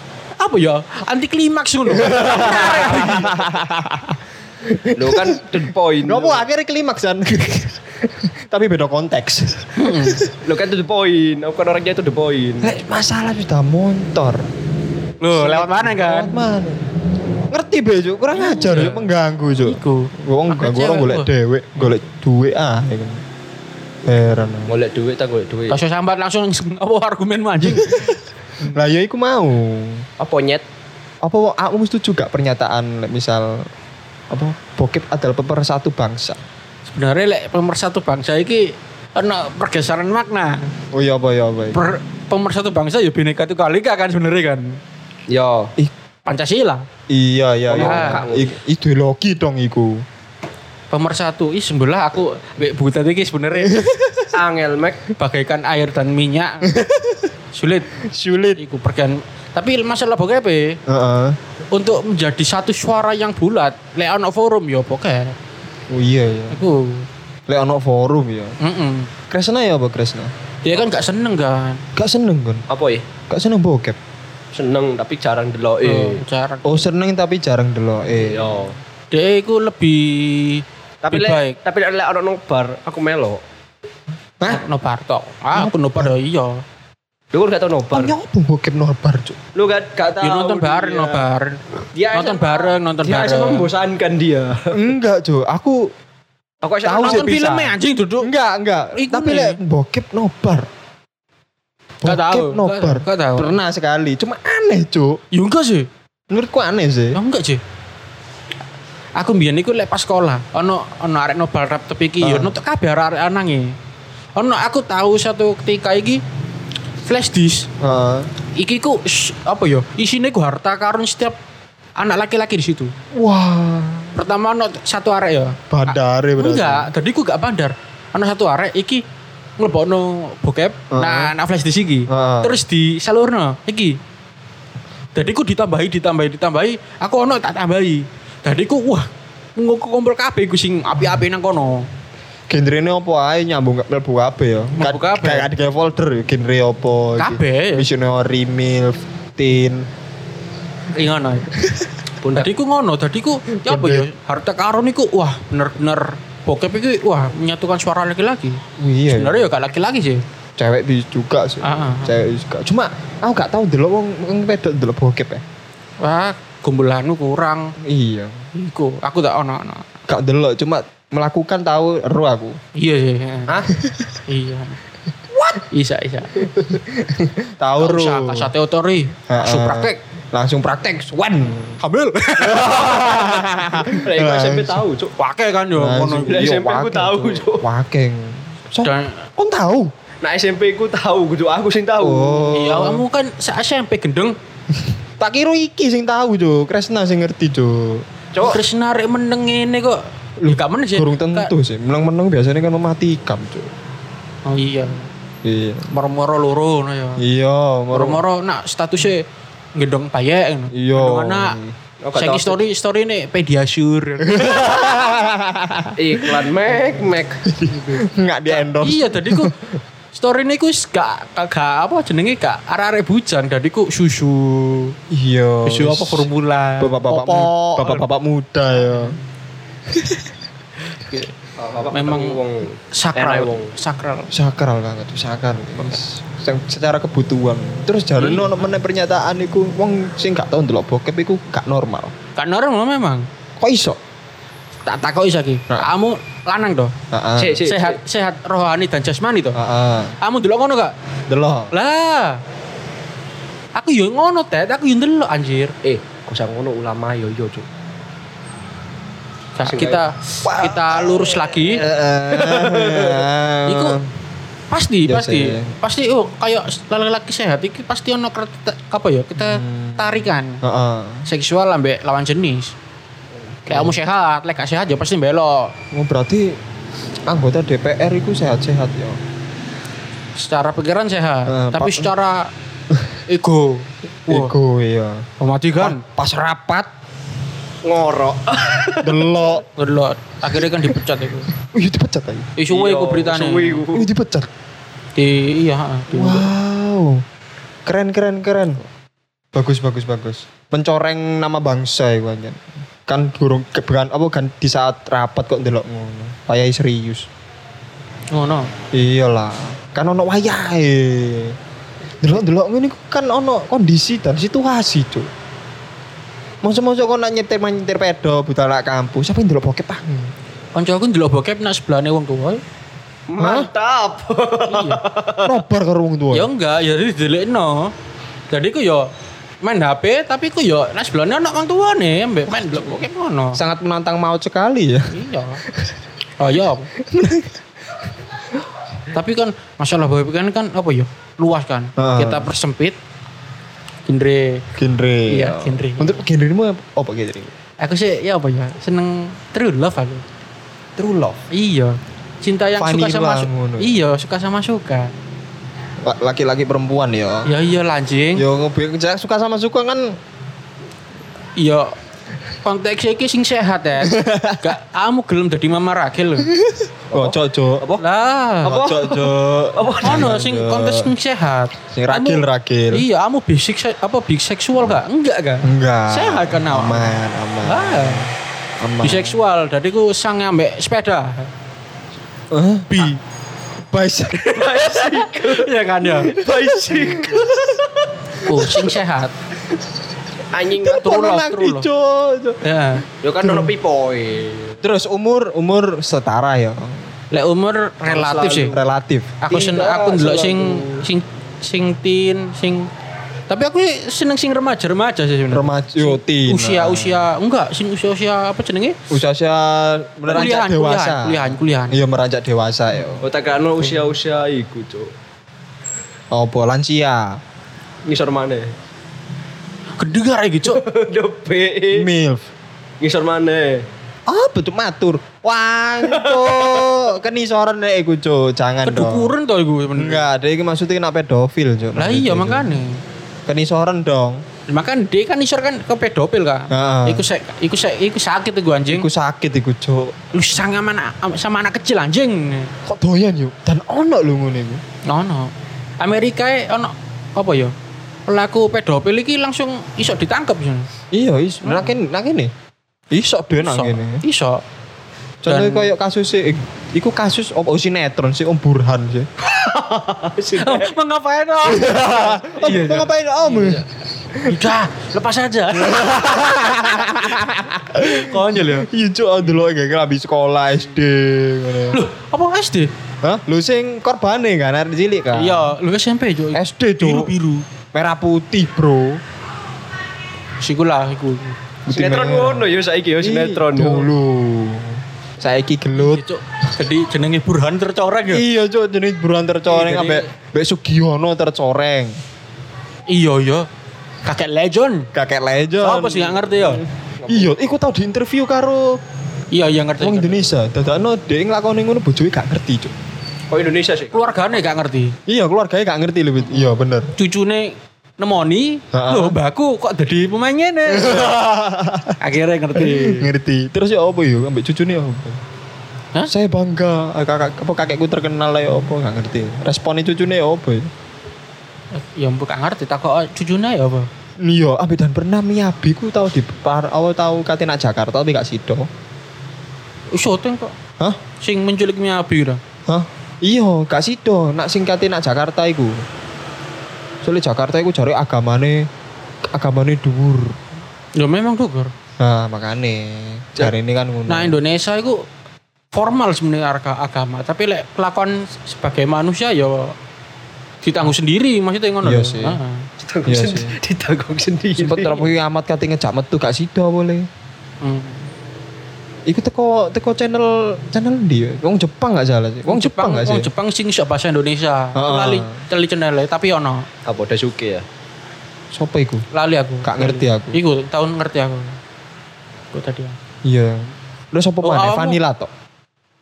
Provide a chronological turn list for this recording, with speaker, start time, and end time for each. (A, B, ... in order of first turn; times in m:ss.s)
0:00.4-0:03.4 A
0:01.8-0:10.3 B
0:04.9-0:06.4 C
0:09.8-0:10.2 A
0:10.4-0:12.7 C
0:12.6-0:14.4 B
0:15.2-0:16.3 A
0:15.3-0:16.9 B
0:17.5-0:23.2 B
0:18.4-0:21.3 A
0:24.0-0:24.7 B
0:24.7-0:25.8 C
0:25.7-0:28.2 A
0:27.6-0:30.1 B
0:30.2-0:30.6 C
0:31.2-0:33.7 B
0:34.3-0:36.4 B
0:36.9-0:40.7 A
0:40.9-0:41.8 B
0:41.7-0:44.8 A
0:45.3-0:45.7 C
0:46.2-0:46.8 A
0:47.1-0:50.0 B
0:47.7-0:48.6 C
0:47.8-0:48.2 A
0:50.9-0:53.8 A
0:53.6-0:54.4 B
0:54.3-0:55.0 C
0:55.2-0:56.7 A
0:56.6-0:57.3 B
0:57.5-0:57.9 A
0:58.0-0:58.6 B
0:58.6-1:00.8 A
1:00.9-1:01.4 B
1:01.7-1:05.4 A
1:05.9-1:06.6 B
1:06.5-1:07.1 A
1:07.5-1:08.6 B
1:08.6-1:09.1 A
1:09.3-1:10.3 B
1:10.6-1:11.8 A
1:12.0-1:12.6 B
1:12.7-1:13.1 C
1:13.3-1:14.0 B
1:14.5-1:16.2 C
1:15.8-1:16.9 A
1:16.6-1:18.6 B
1:18.2-1:18.8 C
1:19.1-1:21.6 A
1:21.0-1:23.4 C
1:24.4-1:24.6 B
1:24.5-1:26.6 A
1:25.5-1:26.1 B
1:27.3-1:28.1 C
1:27.9-1:29.4 B
1:29.5-1:31.3 C
1:30.2-1:31.6 A
1:31.9-1:34.8 C
1:32.1-1:33.7 A
1:34.7-1:35.9 B
1:36.6-1:37.6 C
1:36.8-1:37.7 B
1:36.9-1:38.3 A
1:38.2-1:40.7 B
1:38.9-1:39.6 A
1:42.0-1:45.2 B
1:42.0-1:43.5 A
1:45.3-1:45.9 A
1:46.3-1:47.2 B
1:47.1-1:47.6 A
1:49.2-1:53.8 A
1:52.2-1:52.6 B
1:54.4-1:56.2 A
1:57.0-1:57.7 A
1:57.8-1:58.3 B
1:58.6-2:01.4 A
2:02.0-2:02.9 A
2:03.1-2:04.2 B
2:04.1-2:09.0 A
2:05.7-2:06.9 B
2:09.6-2:14.0 A
2:10.9-2:11.3 B
2:12.1-2:12.6 B
2:15.1-2:21.9 A
2:22.5-2:29.9 B
2:24.8-2:25.5 A
2:27.2-2:27.9 A
2:30.9-2:31.5 A
2:31.6-2:31.9 B
2:32.2-2:32.5 C
2:32.3-2:40.2 A
2:33.6-2:34.1 B
2:38.8-2:39.5 B
2:40.6-2:45.4 B
2:41.6-2:42.1 A
2:46.0-2:47.7 A
2:47.8-2:48.4 B
2:48.5-2:49.9 A
2:50.1-2:52.6 B
2:52.7-2:53.5 A
2:53.7-2:54.2 B
2:54.3-2:54.8 A
2:55.3-2:55.6 B
2:55.5-2:56.5 A
2:56.4-2:58.5 B
2:57.8-3:00.0 A
2:59.3-3:01.8 B
3:01.8-3:03.6 A
3:02.4-3:04.8 B
3:03.8-3:05.1 C
3:05.2-3:06.5 A
3:05.7-3:09.9 B
3:06.3-3:07.6 C
3:08.8-3:09.2 A
3:10.2-3:12.6 C
3:12.0-3:13.0 B
3:12.5-3:14.4 A
3:15.2-3:18.0 B
3:18.4-3:21.5 A
3:20.4-3:23.7 B
3:24.4-3:25.1 A
3:25.4-3:25.9 B
3:25.9-3:27.2 A
3:27.2-3:28.2 B
3:27.9-3:31.6 A
3:30.7-3:31.7 B
3:32.0-3:32.6 C
3:32.1-3:35.0 A
3:34.2-3:36.5 B
3:36.0-3:37.4 C
3:37.4-3:39.7 B
3:37.7-3:38.0 A
3:38.8-3:39.5 A
3:40.1-3:45.0 A
3:45.1-3:46.3 B
3:45.6-3:48.1 A
3:46.8-3:49.2 B
3:48.8-3:49.2 A
3:49.9-3:50.3 B
3:50.9-3:51.3 A
3:51.6-3:53.7 C
3:51.9-3:52.4 A
3:52.9-3:54.3 A
3:54.3-4:02.1 B
4:02.4-4:03.3 A
4:03.6-4:04.0 B
4:04.8-4:06.9 A
4:07.1-4:07.6 B
4:07.4-4:08.0 C
4:07.6-4:09.6 A
4:09.5-4:10.2 B
4:10.2-4:10.9 A
4:11.3-4:11.7 B
4:11.7-4:12.4 A
4:13.7-4:15.7 A
4:15.8-4:17.6 C
4:19.6-4:21.8 A
4:19.6-4:20.0 C
4:20.4-4:24.1 B
4:22.3-4:23.2 C
4:23.6-4:24.0 A
4:24.7-4:30.6 A
4:25.0-4:25.7 B
4:29.4-4:31.3 B
4:31.2-4:32.7 A
4:33.6-4:34.0 B
4:33.7-4:35.7 A
4:35.9-4:36.6 B
4:37.3-4:39.2 B
4:40.4-4:42.5 A
4:41.5-4:42.1 B
4:42.9-4:43.2 B
4:43.3-4:44.5 A
4:44.3-4:46.9 B
4:45.4-4:46.0 A
4:47.8-4:49.3 C
4:49.0-4:49.6 B
4:49.8-4:51.5 A
4:50.6-4:51.0 B
4:51.5-4:52.5 B
4:52.6-4:53.8 A
4:52.7-4:54.1 C
4:53.9-4:54.5 B
4:55.2-4:56.5 A
4:56.1-4:57.2 B
4:57.8-4:58.8 B
4:59.5-5:07.3 B
5:08.3-5:08.7 A
5:08.9-5:11.6 B
5:12.2-5:15.3 B
5:16.6-5:20.3 B
5:20.7-5:22.6 A
5:23.3-5:25.6 C
5:23.4-5:23.7 B
5:24.7-5:25.0 A
5:25.4-5:26.5 B
5:26.3-5:27.9 A
5:28.5-5:29.1 A
5:29.6-5:33.6 A
5:33.5-5:36.0 B
5:35.1-5:35.6 A
5:36.4-5:36.9 A
5:37.0-5:37.6 B
5:39.1-5:43.0 A
5:42.0-5:42.5 B
5:44.0-5:44.6 A
5:44.7-5:47.5 B
5:45.3-5:46.2 A
5:47.8-5:50.2 A
5:51.0-5:51.4 B
5:51.5-5:55.1 A
5:52.8-5:53.9 B
5:56.0-5:57.5 B
5:57.4-5:58.4 A
5:58.3-6:00.2 B
6:01.6-6:01.9 A
6:02.6-6:06.5 A
6:04.0-6:04.7 B
6:06.4-6:07.9 B
6:07.1-6:08.0 C
6:08.0-6:08.8 A
6:08.6-6:10.3 C
6:08.6-6:11.1 B
6:10.0-6:18.3 A
6:11.9-6:13.0 B
6:15.6-6:19.4 B
6:19.0-6:21.5 A
6:22.5-6:23.1 B
6:22.9-6:23.2 A
6:23.8-6:25.0 B
6:24.4-6:28.8 C
6:24.8-6:26.4 A
6:26.4-6:27.8 B
6:28.4-6:29.3 A
6:28.5-6:28.8 B
6:30.5-6:31.0 C
6:30.8-6:32.6 B
6:30.8-6:31.8 A
6:32.6-6:33.0 A
6:33.2-6:34.8 C
6:33.4-6:33.7 B
6:34.8-6:37.1 B
6:37.3-6:38.7 A
6:38.0-6:38.9 C
6:38.6-6:39.4 B
6:39.4-6:42.9 A
6:39.5-6:41.0 C
6:43.5-6:49.0 A
6:45.5-6:47.3 B
6:49.1-6:53.3 B
6:50.3-6:52.0 A
6:53.2-6:55.1 C
6:56.3-6:57.4 B
6:58.0-6:58.7 C
7:00.0-7:00.8 A
7:00.6-7:02.1 C
7:01.9-7:02.5 B
7:03.0-7:03.8 C
7:04.3-7:09.3 B
7:06.1-7:07.0 C
7:08.8-7:10.3 A
7:09.9-7:12.8 B
7:12.0-7:13.0 A
7:13.5-7:14.4 B
7:14.7-7:19.1 A
7:16.7-7:17.2 B
7:18.9-7:20.2 B
7:20.3-7:22.7 A
7:22.8-7:24.8 B
7:25.1-7:27.7 A
7:28.3-7:30.9 A
7:31.1-7:32.5 B
7:31.6-7:31.9 A
7:33.1-7:34.2 B
7:33.6-7:34.6 A
7:35.4-7:39.3 B
7:35.5-7:35.9 A
7:39.6-7:40.9 C
7:39.8-7:43.8 A
7:41.6-7:44.7 B
7:44.4-7:46.2 A
7:45.7-7:52.0 B
7:47.9-7:48.9 A
7:51.9-7:52.9 A
7:53.2-7:55.7 B
7:55.3-7:57.6 A
7:56.5-7:57.3 B
7:57.9-7:59.2 B
8:00.6-8:01.6 A
8:01.8-8:02.7 B
8:01.9-8:04.1 C
8:03.2-8:06.2 B
8:06.0-8:08.4 A
8:08.3-8:12.2 B
8:09.7-8:10.3 A
8:13.1-8:13.7 A
8:14.2-8:15.1 A
8:15.1-8:19.0 B
8:15.8-8:16.8 A
8:19.5-8:20.4 A
8:20.0-8:22.9 B
8:23.5-8:24.4 C
8:24.1-8:25.2 A
8:25.3-8:27.1 B
8:26.4-8:31.4 A
8:28.9-8:29.4 B
8:30.9-8:32.2 B
8:32.2-8:33.3 A
8:32.7-8:35.4 B
8:36.3-8:40.9 B
8:41.9-8:44.1 A
8:44.4-8:48.9 B
8:50.1-8:50.7 A
8:51.4-8:52.6 A
8:52.9-8:56.0 B
8:57.2-8:58.9 B
8:59.5-9:00.6 B
9:01.2-9:01.9 A
9:02.2-9:04.6 B
9:04.3-9:05.2 A
9:05.9-9:09.9 A
9:10.8-9:12.9 A
9:12.0-9:12.6 B
9:13.0-9:15.2 C
9:13.2-9:13.8 B
9:14.8-9:17.3 B
9:17.8-9:18.3 A
9:19.3-9:23.5 B
9:22.6-9:26.9 A
9:24.9-9:25.6 B
9:27.0-9:27.8 C
9:28.7-9:29.2 B
9:29.3-9:31.8 A
9:29.8-9:30.6 B
9:32.7-9:33.2 A
9:33.4-9:35.5 B
9:34.6-9:35.2 A